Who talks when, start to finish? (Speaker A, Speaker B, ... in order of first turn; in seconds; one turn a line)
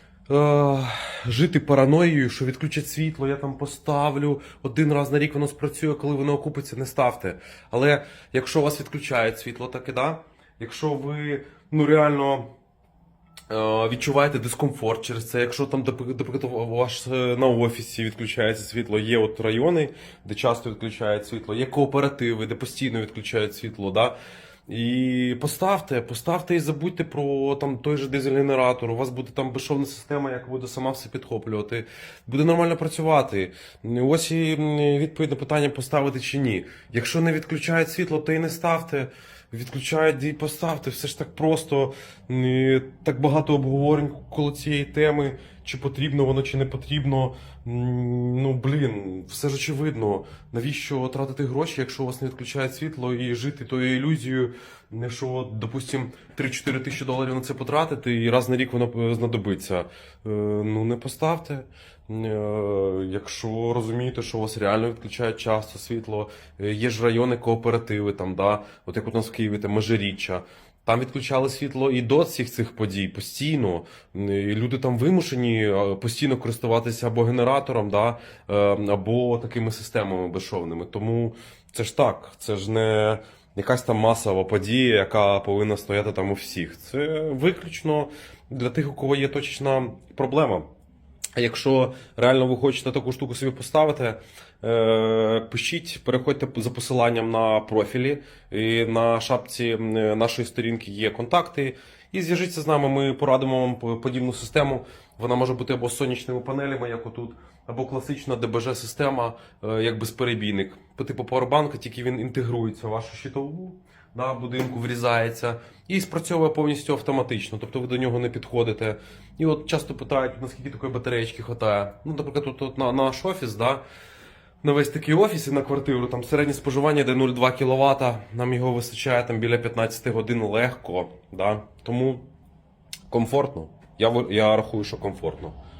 Speaker A: 0.3-12.5
Speaker A: 13.5-24.1
Speaker A: 24.7-90.7
Speaker A: 91.4-123.8
Speaker A: 124.6-132.3
Speaker A: 133.1-135.6